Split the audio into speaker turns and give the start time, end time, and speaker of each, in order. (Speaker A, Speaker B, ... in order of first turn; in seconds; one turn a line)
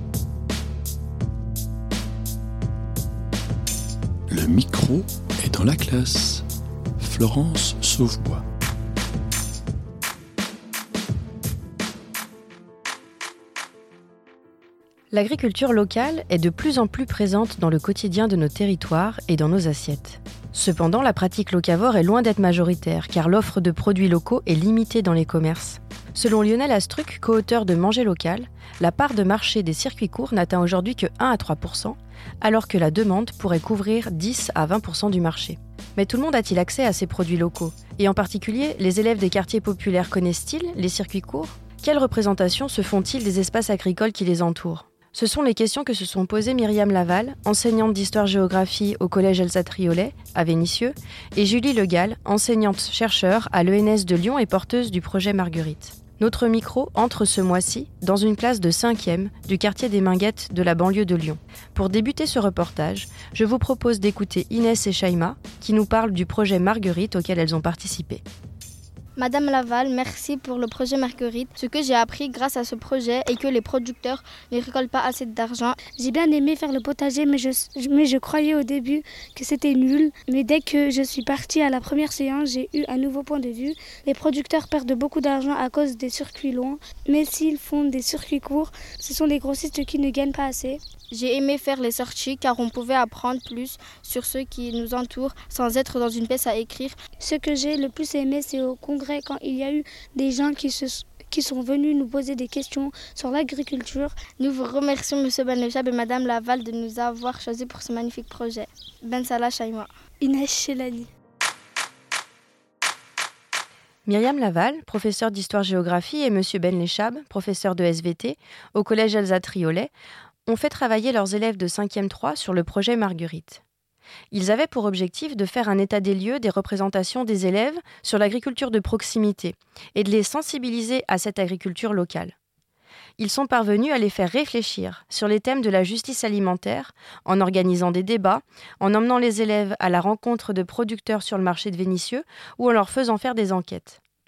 Speaker A: 4.3-6.4
Speaker A: 7.0-8.4
Speaker B: 15.1-68.2
Speaker C: 69.2-75.8
Speaker D: 75.9-90.8
Speaker C: 91.1-97.0
Speaker D: 97.2-104.2
Speaker C: 104.4-109.9
Speaker D: 110.2-111.1
Speaker B: 114.1-119.9
Speaker B: 120.5-123.6
Speaker B: 124.3-132.3
Speaker B: 133.2-144.0